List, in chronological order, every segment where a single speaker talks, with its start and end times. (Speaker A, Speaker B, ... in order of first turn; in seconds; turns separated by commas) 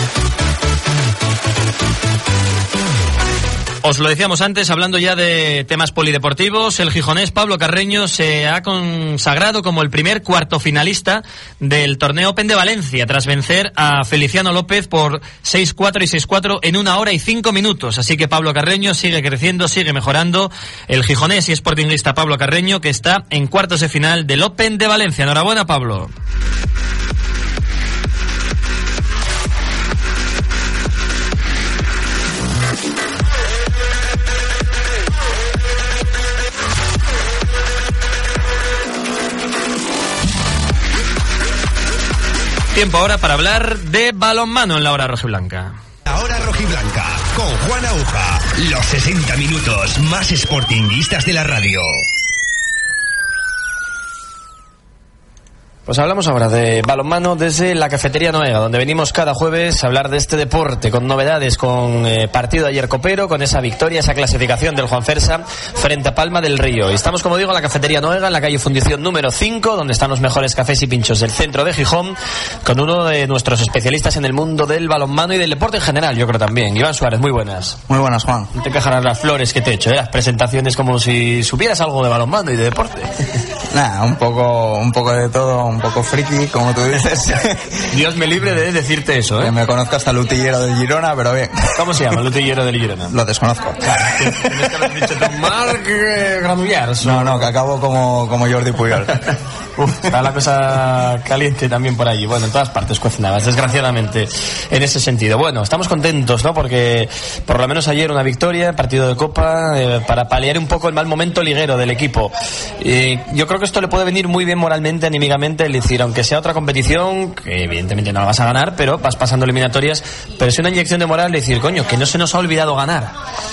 Speaker A: 3.8-26.1, Speaker A: 42.7-45.7, Speaker B: 46.1-52.0, Speaker A: 55.9-77.8, Speaker C: 77.9-78.5, Speaker A: 78.5-83.1, Speaker C: 83.7-87.5, Speaker A: 87.9-89.5, Speaker C: 89.4-91.6, Speaker A: 91.7-93.1, Speaker C: 93.1-94.6, Speaker A: 93.8-97.4, Speaker C: 97.0-99.1, Speaker A: 99.8-123.1